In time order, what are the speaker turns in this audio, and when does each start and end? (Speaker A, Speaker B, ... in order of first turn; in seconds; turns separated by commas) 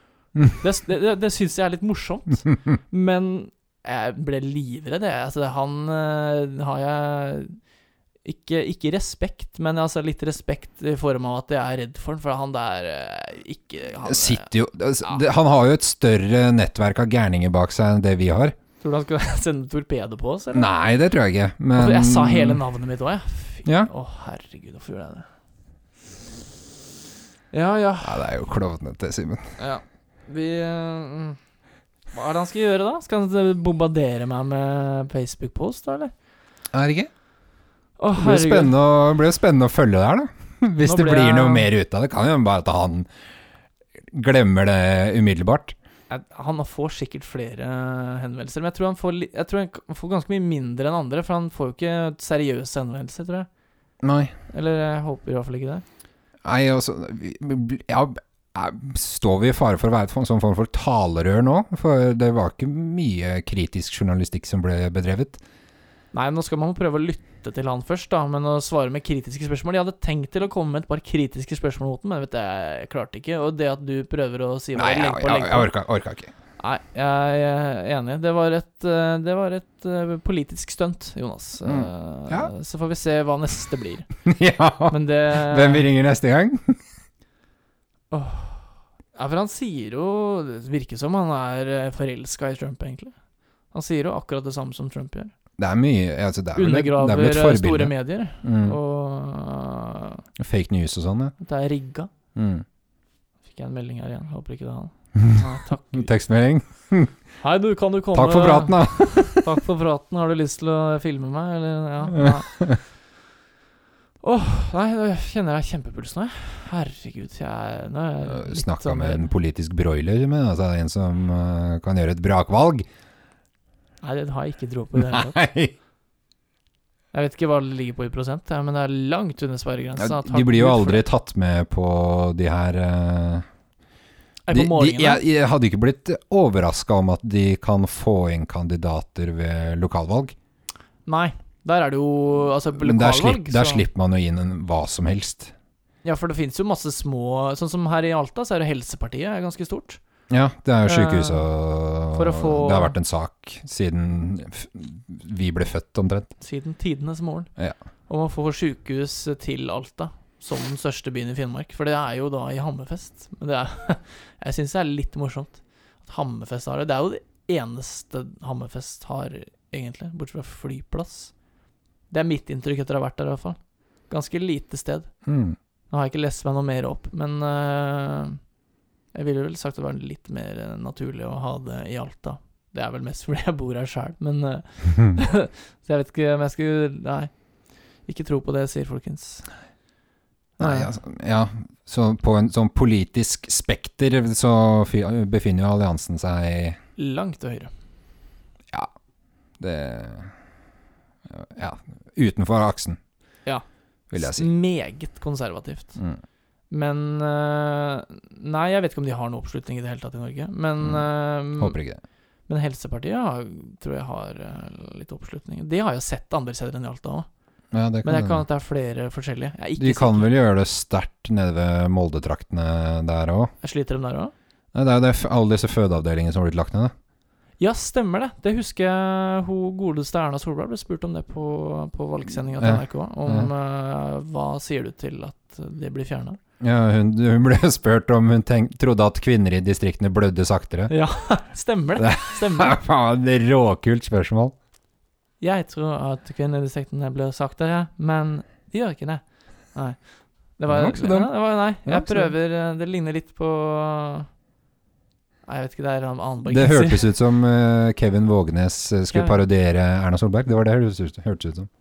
Speaker A: 0.4-7.6, Speaker A: 8.2-14.5, Speaker B: 14.0-18.5, Speaker A: 18.8-20.7, Speaker B: 20.5-22.6, Speaker A: 21.7-25.3, Speaker B: 23.6-23.9, Speaker A: 27.5-28.2, Speaker B: 28.0-29.6, Speaker A: 29.6-31.4, Speaker A: 32.1-36.1, Speaker B: 36.7-37.1, Speaker A: 38.0-38.7, Speaker B: 38.2-43.1, Speaker A: 40.8-41.7, Speaker B: 44.1-45.8, Speaker A: 46.1-53.5, Speaker B: 54.0-54.3, Speaker A: 54.5-55.8, Speaker B: 56.4-65.4, Speaker A: 66.1-75.7, Speaker B: 74.7-76.3, Speaker A: 76.6-84.1, Speaker B: 81.6-82.5, Speaker B: 84.2-86.8, Speaker A: 84.9-85.9, Speaker A: 88.1-93.1, Speaker A: 93.7-95.3, Speaker B: 95.6-98.8, Speaker A: 96.5-100.2, Speaker B: 100.4-101.3, Speaker A: 101.4-102.1, Speaker B: 102.3-102.6, Speaker A: 103.5-106.1, Speaker B: 105.2-105.4, Speaker B: 105.9-107.1, Speaker A: 107.4-112.6, Speaker B: 108.1-109.5, Speaker B: 112.1-112.8, Speaker A: 114.2-119.3, Speaker B: 118.2-122.8, Speaker A: 124.0-125.4, Speaker B: 125.0-125.7, Speaker A: 127.1-131.0, Speaker B: 130.0-133.4, Speaker A: 134.4-135.2, Speaker B: 134.5-140.3, Speaker A: 141.1-143.8, Speaker B: 142.8-145.5, Speaker A: 146.0-150.0, Speaker B: 150.3-156.3, Speaker A: 150.8-151.4, Speaker A: 152.1-152.9, Speaker A: 156.4-157.5, Speaker A: 158.1-171.3, Speaker A: 172.1-173.6, Speaker A: 174.1-175.1, Speaker B: 175.2-175.6, Speaker A: 175.9-178.4, Speaker A: 179.1-187.3, Speaker A: 188.1-189.5, Speaker A: 190.6-190.9, Speaker B: 190.6-196.8, Speaker A: 197.0-197.7, Speaker B: 199.6-200.3, Speaker B: 201.3-203.0, Speaker B: 204.1-204.5, Speaker A: 204.1-206.0, Speaker A: 206.7-211.8, Speaker B: 210.8-212.0, Speaker A: 212.5-217.3, Speaker B: 217.7-218.4, Speaker A: 218.0-220.3, Speaker B: 219.8-223.5, Speaker A: 223.6-224.3, Speaker B: 224.7-226.9, Speaker A: 227.6-236.4, Speaker B: 232.6-233.5, Speaker B: 236.6-240.9, Speaker A: 240.9-242.8, Speaker B: 242.0-244.5, Speaker A: 245.4-250.0, Speaker A: 250.6-254.3, Speaker B: 250.7-252.3, Speaker A: 255.4-257.0, Speaker B: 256.5-261.7, Speaker A: 259.1-259.4